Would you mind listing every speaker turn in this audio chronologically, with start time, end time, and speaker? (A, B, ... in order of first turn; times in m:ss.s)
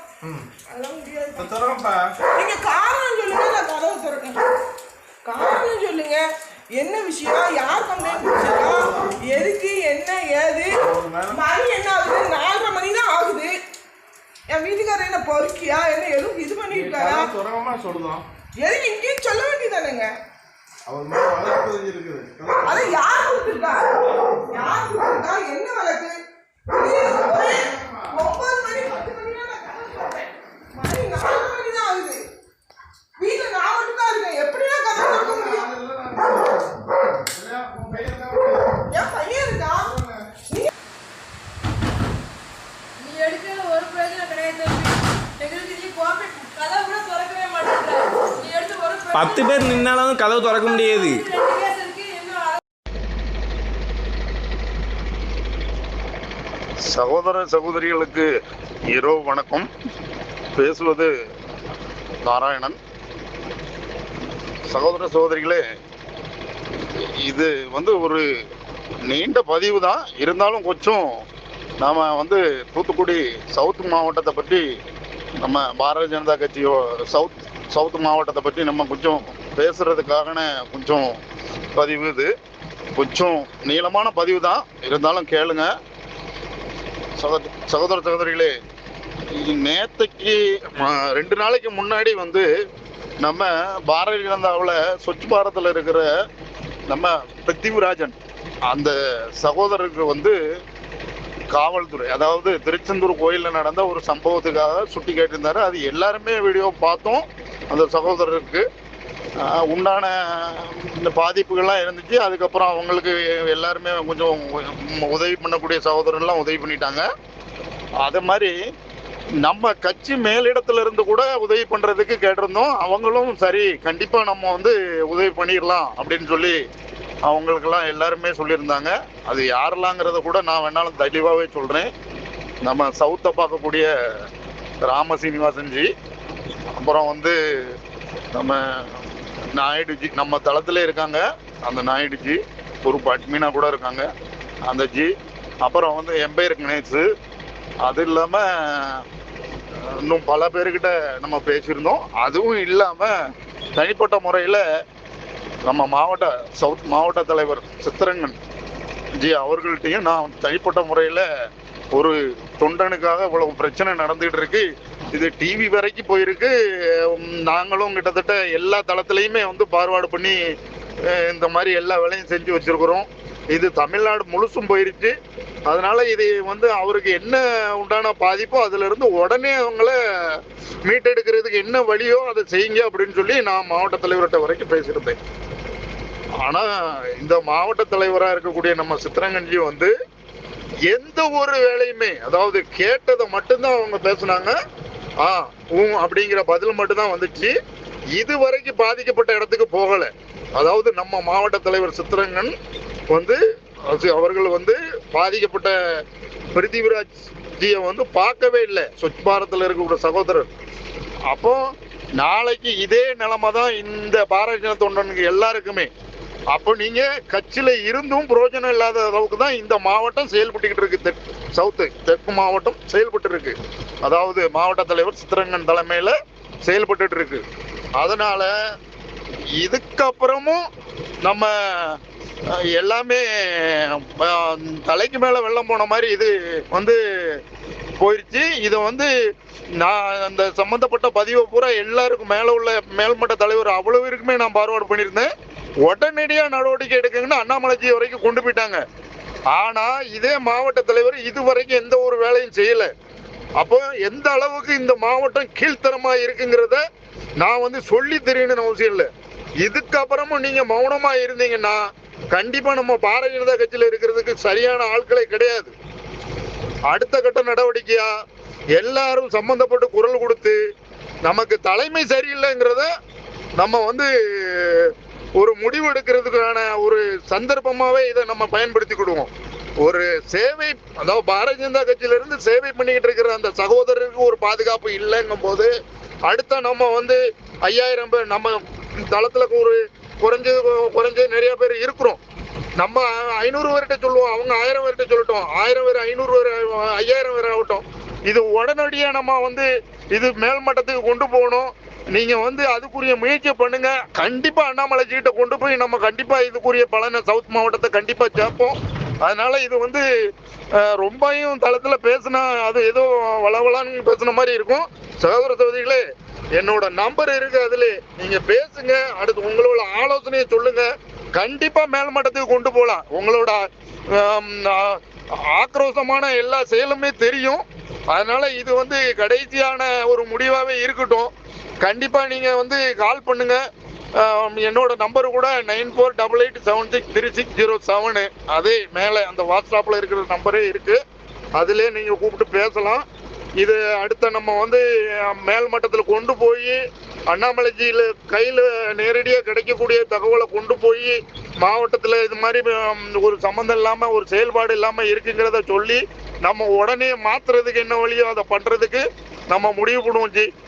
0:00.7-0:01.5 A
0:01.4-0:02.1 B
0:02.4-0:04.4 A
0:05.2-0:06.2 A
0:06.8-0:10.8 A
0:07.9-0:09.2 B
0:10.8-0:11.4 B
0:11.3-0:13.6 A
0:14.5-0:17.3 A
0:16.7-0:18.2 B
0:18.6-0:20.1 A
0:20.9-0:22.9 B
0:22.6-0:26.2 A
0:26.7-0:32.2 A
0:27.0-0:28.2 B
0:33.2-0:35.7 A
0:34.9-0:38.9 B
0:38.9-0:40.7 A
0:39.8-0:40.2 B
0:43.0-0:49.8 C
0:49.1-0:51.2 D
0:50.5-0:52.6 C
0:56.8-0:58.3 E
0:58.9-0:59.7 E
1:00.5-1:01.1 E
1:02.2-1:02.8 E
1:04.7-1:05.6 E
1:07.2-1:08.2 E
1:09.1-1:11.0 E
1:11.8-1:14.6 E
1:15.4-1:21.2 E
1:21.7-1:22.3 E
1:23.0-1:25.7 E
1:27.2-1:28.5 E
1:29.3-1:32.5 E
1:33.2-1:36.1 E
1:36.9-1:38.2 E
1:38.7-1:40.4 E
1:41.5-1:48.6 E
1:49.4-1:57.0 E
1:58.0-1:58.5 E
1:59.4-2:06.6 E
2:07.2-2:11.9 E
2:12.6-2:13.9 E
2:14.8-2:15.9 E
2:16.7-2:17.4 E
2:18.3-2:19.0 E
2:19.6-2:24.1 E
2:24.6-2:27.1 E
2:27.8-2:29.0 E
2:29.8-2:33.1 E
2:33.7-2:34.6 E
2:35.6-2:38.4 E
2:39.2-2:41.2 E
2:41.9-2:50.4 E
2:51.0-2:55.1 E
2:55.7-3:05.2 E
3:06.4-3:09.9 E
3:10.9-3:14.6 E
3:15.2-3:17.5 E
3:18.1-3:22.5 E
3:23.1-3:26.0 E
3:26.5-3:30.5 E
3:31.3-3:31.6 E
3:32.2-3:35.9 E
3:36.5-3:47.4 E
3:48.0-3:48.5 E
3:49.6-3:50.6 E
3:51.2-3:57.4 E
3:58.0-3:59.1 E
3:59.8-4:05.3 E
4:05.8-4:08.8 E
4:09.5-4:12.9 E
4:13.6-4:16.8 E
4:17.4-4:19.1 E
4:19.6-4:21.8 E
4:22.3-4:25.7 E
4:26.9-4:28.1 E
4:28.8-4:30.6 E
4:31.2-4:32.9 E
4:33.6-4:39.3 E
4:39.8-4:45.7 E
4:46.3-4:52.2 E
4:52.8-5:10.0 E
5:10.7-5:16.0 E
5:16.5-5:31.3 E
5:31.8-5:33.6 E
5:34.2-5:41.0 E
5:41.6-5:43.0 E
5:43.6-5:46.8 E
5:47.3-6:00.5 E